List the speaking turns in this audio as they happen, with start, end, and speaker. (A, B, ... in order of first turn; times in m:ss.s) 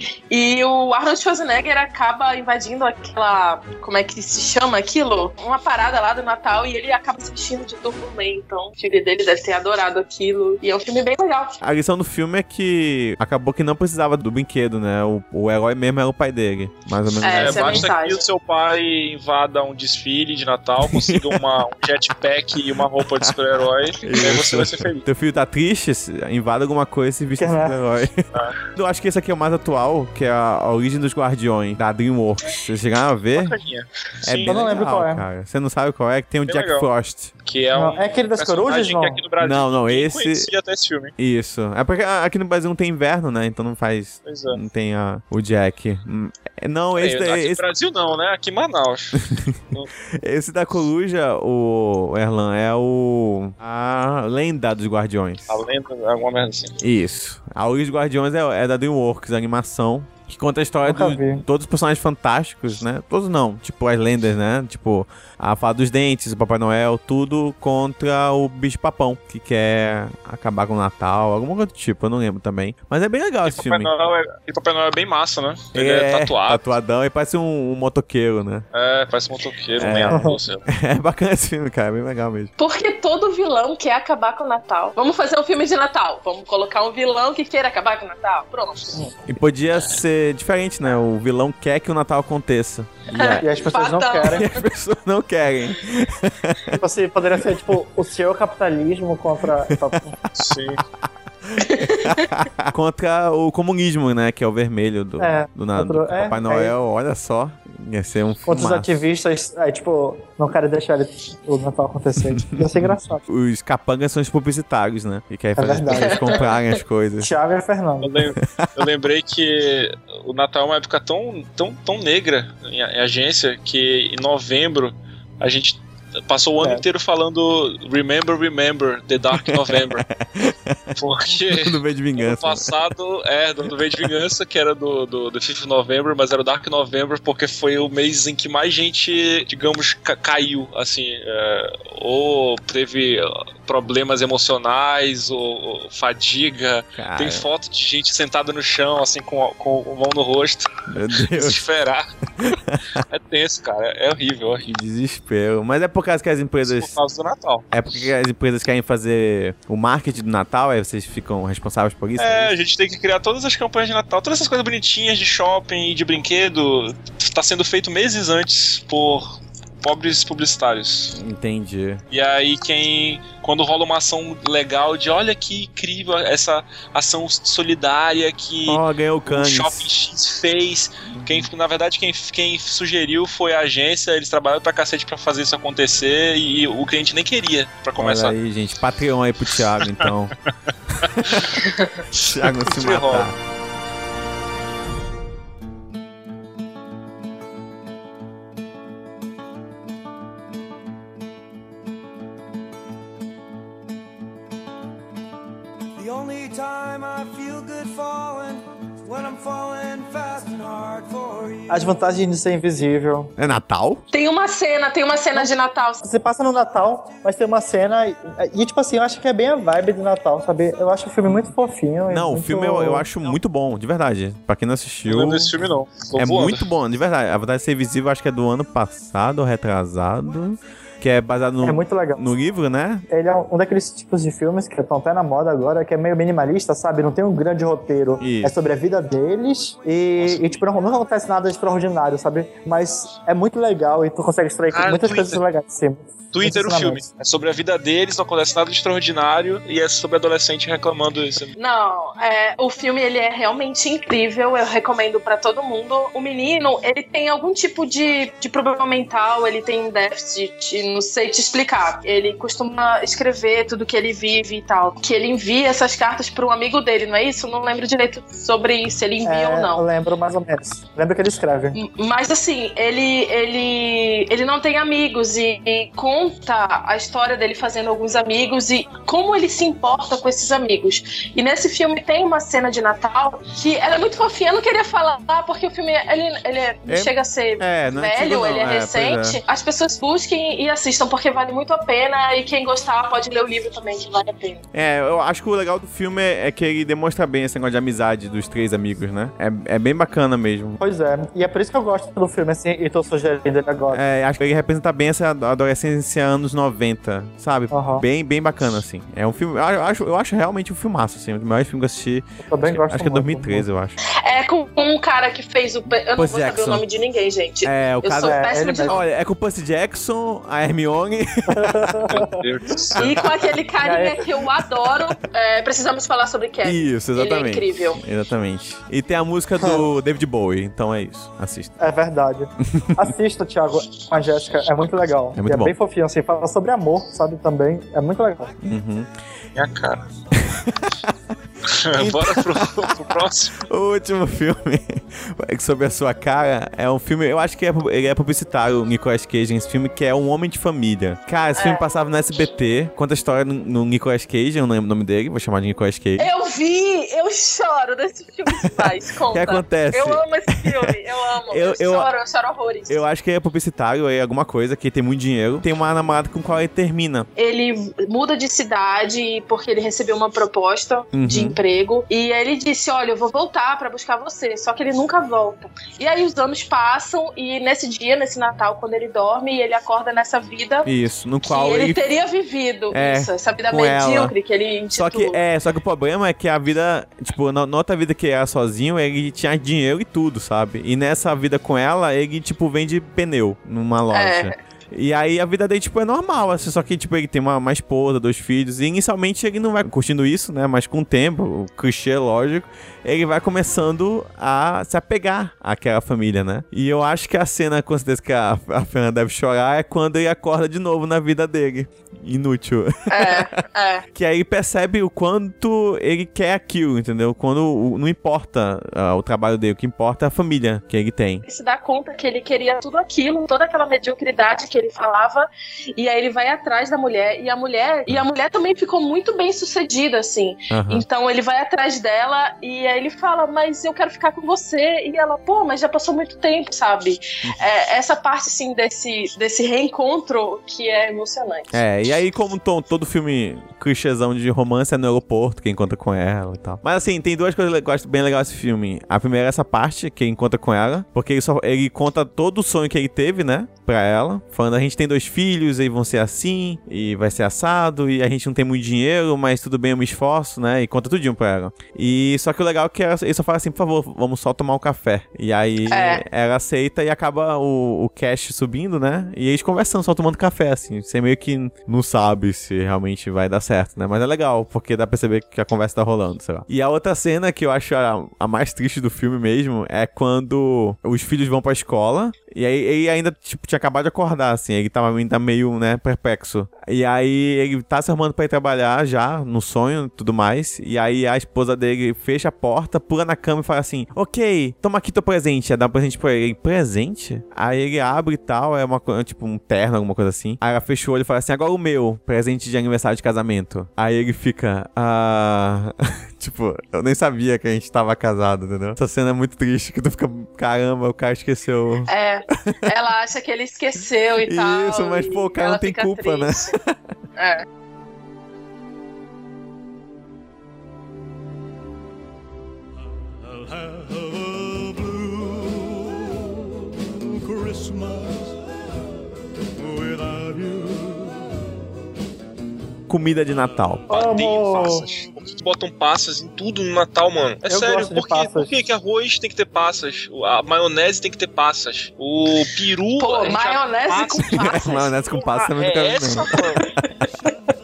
0:00.3-0:11.5 A
0:11.6-0:17.9 B
0:17.2-0:18.2 A
0:17.3-0:25.0 C
0:21.0-0:21.3 B
0:24.0-0:33.6 B
0:27.4-0:27.8 D
0:33.4-0:34.5 C
0:34.2-0:37.3 B
0:34.5-0:35.2 D
0:36.5-0:36.9 C
0:37.4-0:41.1 C
0:37.8-0:39.2 D
0:39.4-0:40.5 B
0:41.2-0:47.6 B
0:44.2-0:44.6 C
0:47.0-0:49.9 C
0:50.2-0:55.6 B
0:55.5-0:56.8 C
0:56.8-1:13.9 B
1:00.8-1:01.4 D
1:13.5-1:16.6 C
1:15.7-1:18.7 B
1:18.7-1:20.6 C
1:19.8-1:22.5 B
1:20.1-1:20.4 D
1:22.6-1:29.0 A
1:29.3-1:33.6 B
1:33.2-1:34.4 A
1:33.4-1:34.5 D
1:34.3-1:36.8 B
1:36.8-1:40.1 D
1:39.7-1:48.9 B
1:40.4-1:40.8 C
1:41.6-1:42.3 A
1:45.2-1:46.7 D
1:48.5-1:53.2 D
1:52.3-1:57.3 B
1:55.6-1:56.3 D
1:55.9-1:56.3 A
1:57.2-1:58.2 D
1:58.0-2:10.1 C
1:58.4-1:58.7 B
2:09.3-2:12.7 B
2:11.0-2:30.7 C
2:13.7-2:14.1 B
2:27.0-2:27.5 B
2:30.9-2:31.6 B
2:31.3-2:32.1 C
2:32.4-2:33.0 B
2:33.1-2:34.7 C
2:34.6-2:37.0 B
2:36.7-2:37.6 C
2:37.7-2:42.5 B
2:42.2-2:51.2 C
2:51.1-2:52.0 B
2:52.1-3:08.4 C
2:58.7-2:59.9 B
3:01.1-3:01.5 B
3:08.0-3:10.3 B
3:11.0-3:11.5 B
3:11.3-3:11.6 C
3:12.1-3:13.3 C
3:12.2-3:13.4 B
3:26.0-3:32.1 E
3:31.7-3:33.3 D
3:33.4-3:34.0 B
3:34.1-3:36.0 A
3:35.3-3:43.1 D
3:42.1-3:45.6 B
3:45.1-3:46.6 C
3:46.2-3:53.1 B
3:51.6-3:52.3 D
3:53.1-4:07.0 D
3:58.2-3:58.6 B
4:04.7-4:05.4 C
4:06.3-4:11.5 C
4:11.6-4:29.8 A
4:29.2-4:31.8 D
4:31.8-4:54.6 A
4:46.9-4:49.4 B
4:54.7-5:00.8 B
5:00.8-5:04.0 D
5:03.9-5:14.0 B
5:07.7-5:08.0 D
5:12.4-5:13.7 D
5:14.2-5:19.0 A
5:16.2-5:16.8 B
5:17.6-5:22.0 B
5:18.2-5:19.0 D
5:21.5-5:22.3 D
5:22.1-5:23.2 C
5:23.0-5:23.3 B
5:23.0-5:28.0 A
5:23.8-5:24.2 D
5:26.6-5:31.8 B
5:31.8-5:38.5 D
5:35.4-5:35.8 B
5:38.6-5:39.1 B
5:39.6-5:40.0 C
5:40.4-5:41.2 B
5:41.7-5:43.6 C
5:42.0-5:56.3 B
5:51.6-5:51.8 A
5:56.2-6:03.0 A
5:58.5-6:01.0 B
6:01.5-6:02.1 B
6:02.9-6:07.3 B
6:07.4-6:20.9 A
6:11.1-6:11.6 B
6:20.9-6:22.0 B
6:21.4-6:25.4 A
6:22.9-6:24.3 B
6:24.9-6:53.5 B
6:34.1-6:34.6 A
6:53.1-6:54.0 A
6:54.2-7:01.4 B
7:01.4-7:21.7 A
7:10.7-7:11.0 B
7:21.7-8:32.1 B
7:45.9-7:46.2 A
8:32.1-8:36.8 A
8:34.4-8:37.0 B
8:37.4-8:37.6 A
8:43.5-8:48.6 E
8:49.8-8:51.5 E
8:53.1-8:54.1 B
8:54.1-9:06.9 C
8:54.1-8:55.0 D
8:57.7-8:58.8 D
9:03.2-9:05.1 A
9:04.5-9:06.6 B